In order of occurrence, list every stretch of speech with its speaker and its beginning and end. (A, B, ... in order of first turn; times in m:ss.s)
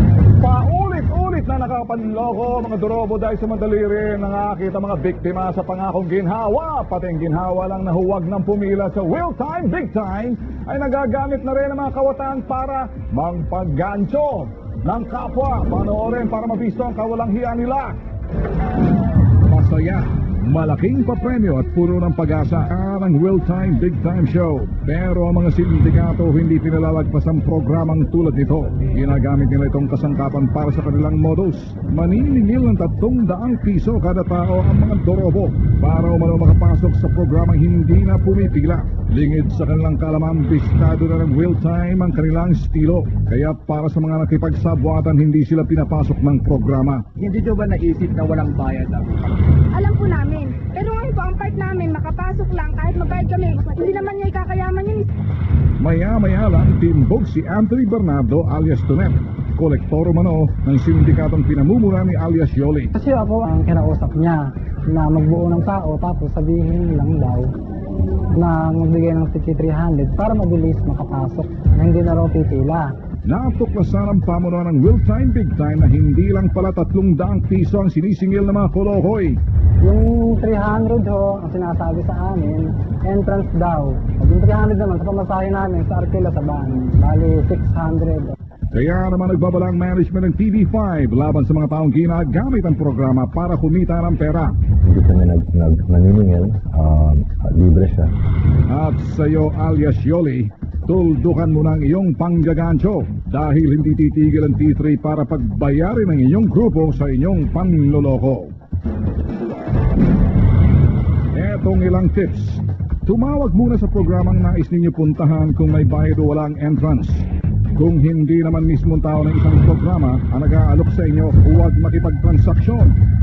0:00.4-0:18.0 A
0:19.4-0:47.1 A
0:47.2-0:49.4 B
0:49.7-0:55.1 C
0:55.8-1:02.9 A
1:03.0-1:07.5 D
1:08.3-1:12.9 D
1:13.3-1:19.4 A
1:19.8-1:28.4 D
1:28.7-1:34.6 A
1:34.8-1:38.1 E
1:38.7-1:48.5 A
1:51.3-2:03.0 A